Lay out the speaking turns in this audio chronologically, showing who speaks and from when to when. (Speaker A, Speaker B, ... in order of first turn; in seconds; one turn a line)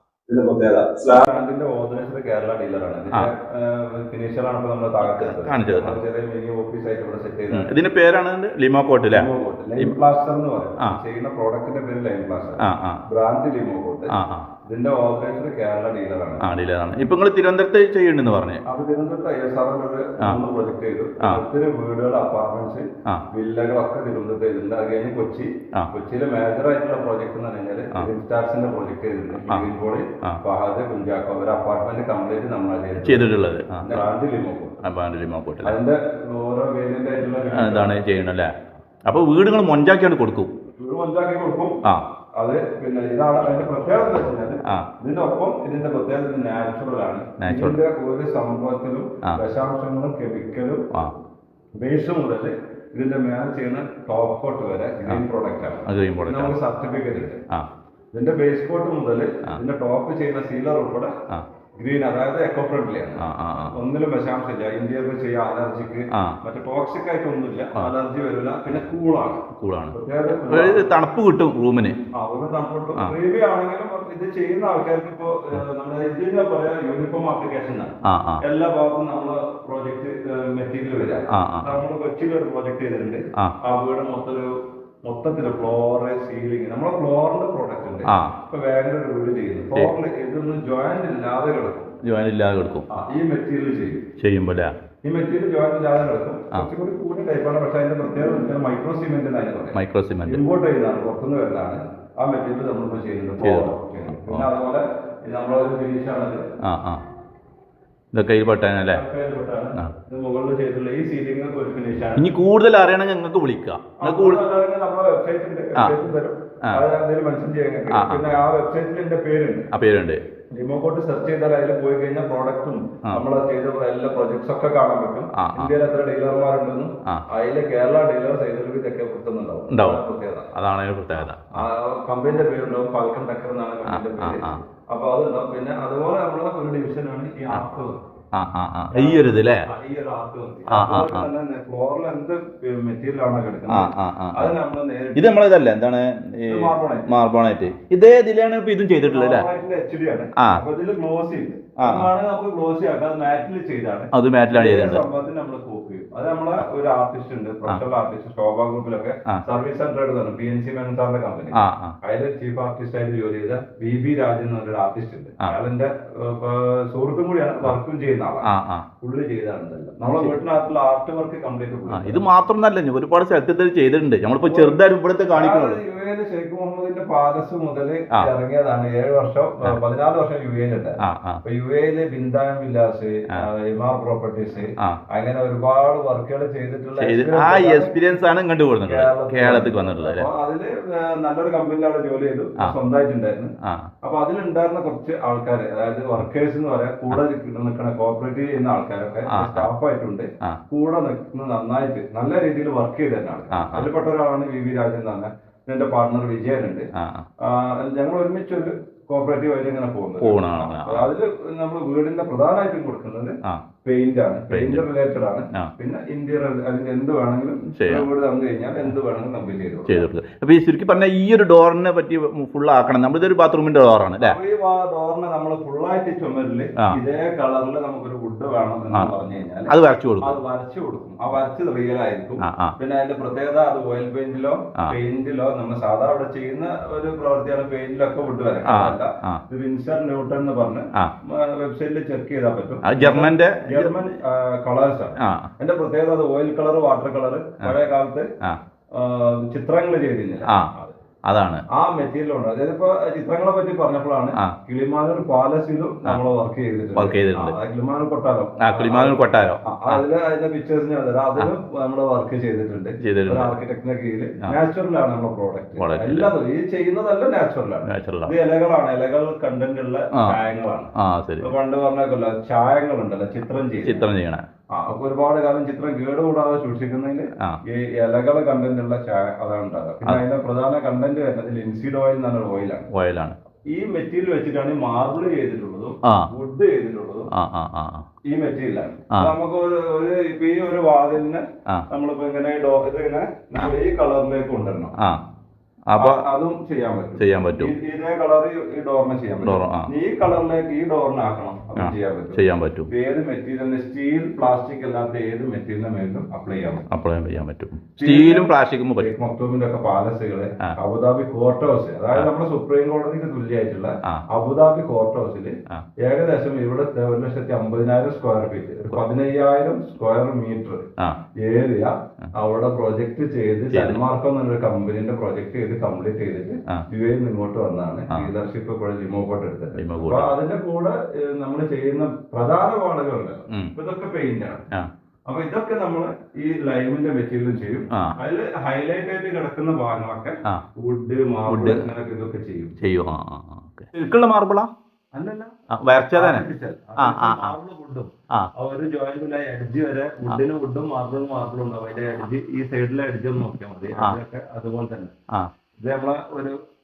Speaker A: 0.3-7.7
Speaker B: 5.0-6.0
Speaker B: 7.5-9.9
Speaker A: 9.1-14.2
Speaker B: 12.6-13.0
Speaker B: 14.1-14.5
Speaker A: 14.7-16.5
Speaker B: 16.4-18.6
Speaker A: 18.7-34.8
Speaker B: 29.4-29.7
Speaker B: 33.0-34.0
Speaker B: 34.8-35.8
Speaker A: 35.6-38.0
Speaker B: 37.5-38.5
Speaker B: 39.1-40.5
Speaker A: 40.8-41.8
Speaker A: 42.4-50.9
Speaker B: 47.4-47.8
Speaker A: 51.8-57.4
Speaker B: 55.9-56.6
Speaker A: 58.1-61.1
Speaker A: 61.8-71.0
Speaker B: 63.2-63.8
Speaker B: 69.6-70.0
Speaker B: 70.5-72.0
Speaker A: 72.1-91.9
Speaker B: 78.0-78.4
Speaker B: 81.3-81.8
Speaker B: 88.1-88.3
Speaker B: 92.0-92.9
Speaker A: 92.9-94.0
Speaker B: 94.2-94.7
Speaker A: 95.0-106.4
Speaker B: 99.7-100.4
Speaker B: 103.4-104.5
Speaker B: 106.6-107.0
Speaker B: 108.1-109.0
Speaker A: 108.9-112.2
Speaker B: 112.2-114.4
Speaker A: 114.0-119.7
Speaker B: 117.9-118.3
Speaker B: 119.7-120.2
Speaker A: 120.5-130.5
Speaker B: 125.4-125.7
Speaker B: 129.7-130.0
Speaker B: 130.5-131.7
Speaker A: 131.2-138.0
Speaker B: 133.9-134.6
Speaker B: 138.3-139.7
Speaker A: 138.9-145.4
Speaker B: 140.7-141.3
Speaker B: 143.7-144.5
Speaker B: 145.2-149.4
Speaker A: 146.5-147.1
Speaker A: 149.1-168.5
Speaker B: 151.8-152.1
Speaker B: 154.1-155.0
Speaker B: 161.6-162.0
Speaker B: 168.5-168.9
Speaker A: 169.0-172.2
Speaker B: 171.9-175.8
Speaker A: 174.5-174.8
Speaker A: 175.3-187.9
Speaker B: 181.0-181.4
Speaker B: 187.0-190.3
Speaker A: 188.9-193.5
Speaker A: 194.0-206.9
Speaker B: 199.3-199.7
Speaker B: 203.5-203.9
Speaker B: 207.0-207.3
Speaker A: 207.4-220.1
Speaker B: 210.2-211.1
Speaker B: 214.5-214.9
Speaker B: 217.8-218.1
Speaker B: 219.9-224.4
Speaker A: 224.2-248.3
Speaker B: 229.7-230.4
Speaker B: 232.4-232.8
Speaker B: 238.7-239.4
Speaker B: 242.8-244.0
Speaker B: 245.2-245.5
Speaker A: 248.9-250.9
Speaker B: 251.3-251.6
Speaker A: 251.7-274.1
Speaker B: 257.0-257.6
Speaker B: 258.6-260.0
Speaker B: 263.0-263.5
Speaker B: 265.8-266.3
Speaker B: 267.9-268.3
Speaker B: 271.0-271.5
Speaker B: 273.9-274.4
Speaker A: 274.8-282.9
Speaker B: 282.9-283.4
Speaker A: 283.7-287.3
Speaker B: 287.3-288.1
Speaker A: 288.3-294.9
Speaker B: 295.9-296.2
Speaker A: 296.0-306.9
Speaker B: 297.2-297.7
Speaker B: 299.4-299.9
Speaker B: 301.8-302.9
Speaker B: 306.9-309.1
Speaker A: 308.0-320.9
Speaker A: 321.4-334.6
Speaker B: 323.7-324.0
Speaker B: 329.8-330.3
Speaker A: 335.3-342.8
Speaker B: 341.5-341.8
Speaker B: 342.8-344.7
Speaker A: 345.1-345.5
Speaker B: 345.8-346.4
Speaker A: 346.1-355.1
Speaker B: 347.0-347.6
Speaker A: 355.8-356.6